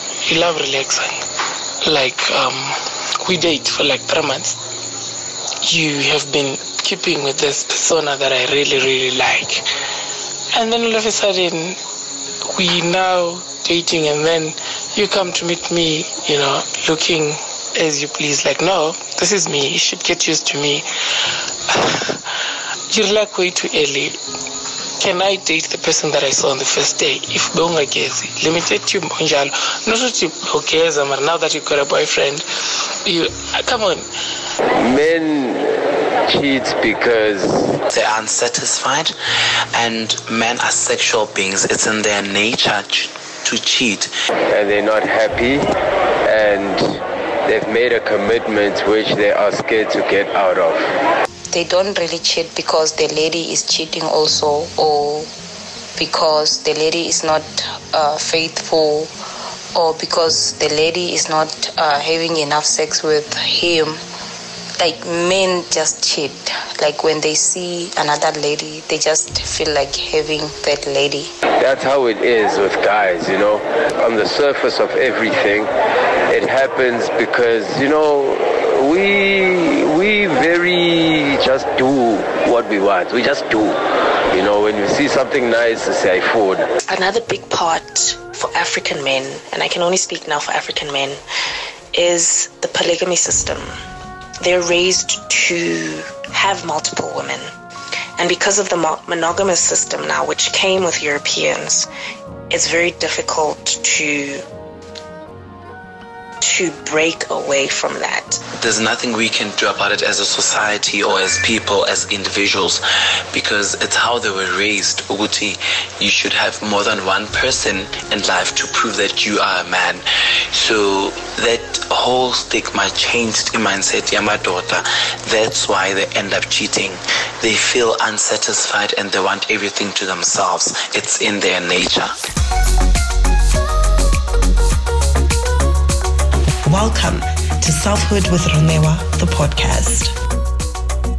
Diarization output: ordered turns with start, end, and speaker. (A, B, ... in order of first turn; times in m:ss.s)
0:00.2-0:01.2 A
0:01.8-0:04.6 A
0:05.6-0:09.6 A
0:10.5-0:11.8 A
0:12.5-0:20.9 A
0:21.7-0:24.2 A
0:25.0-0:32.5 A
0:33.0-0:34.1 A
0:34.8-0:37.8 B
0:37.9-0:39.1 C
0:39.7-0:44.1 C
0:44.5-0:45.7 B
0:46.2-0:50.9 B
0:51.5-0:55.3 D
0:56.0-0:59.1 D
0:59.7-1:04.0 D
1:04.8-1:11.3 D
1:11.6-1:15.7 B
1:16.3-1:26.7 B
1:26.9-1:31.2 E
1:31.9-1:33.8 E
1:34.4-1:37.5 E
1:38.2-1:41.9 E
1:42.5-1:44.4 E
1:46.4-1:48.4 E
1:48.6-2:12.2 C
2:16.6-2:20.2 F